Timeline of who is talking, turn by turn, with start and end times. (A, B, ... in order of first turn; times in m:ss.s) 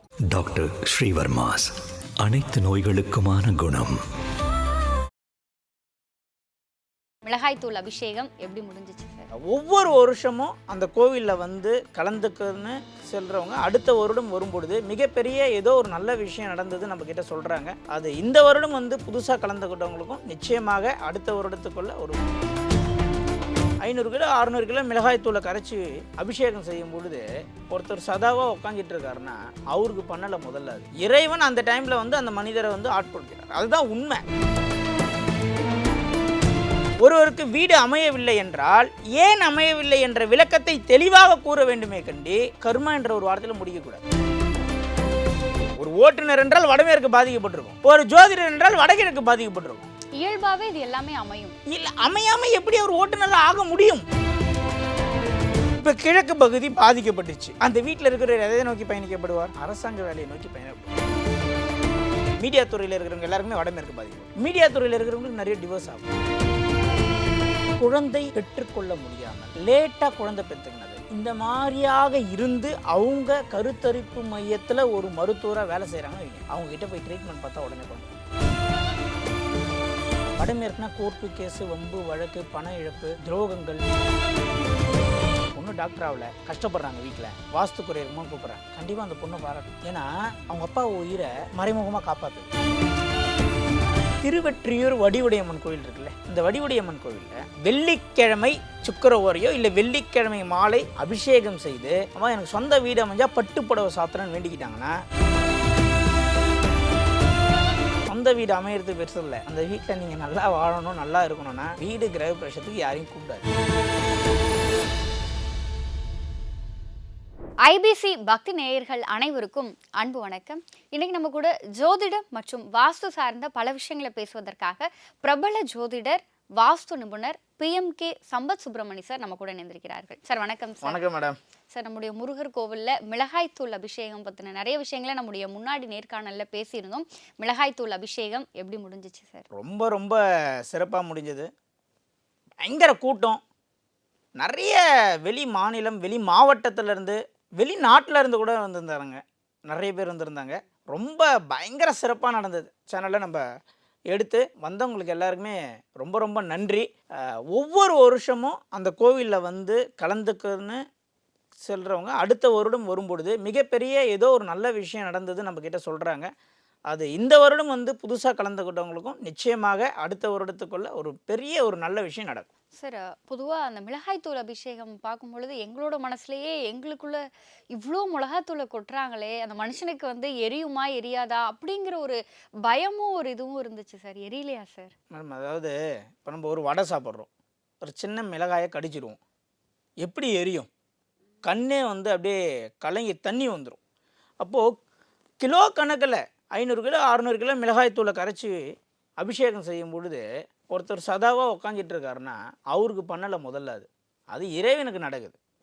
0:00.3-0:04.0 A
0:07.2-0:09.3 B
0:09.4-0:22.2 C
0:23.8-0:34.2 C
0:37.0-0:44.0 C
0:45.8-0:49.9 C
0:50.2-0:51.6 B
0:51.7-0:54.0 C
0:55.8-1:00.9 C
1:02.4-1:06.1 C
1:07.8-1:18.1 C
1:20.4-1:23.8 C
1:25.5-1:32.5 C
1:34.2-1:45.0 C
1:48.0-1:53.4 C
1:57.6-2:11.0 B
2:10.8-2:11.4 C
2:11.7-2:19.4 B
2:19.5-2:21.5 C
2:22.6-2:23.4 C
2:24.4-2:33.4 C
2:34.1-2:40.8 C
2:41.6-2:46.3 C
2:46.9-2:52.5 C
2:52.8-2:57.2 B
2:57.7-3:04.9 B
3:05.1-3:07.3 C
3:07.8-3:09.2 C
3:10.0-3:10.7 C
3:11.4-3:13.8 C
3:14.4-3:14.7 C
3:15.4-3:18.6 C
3:19.2-3:25.4 C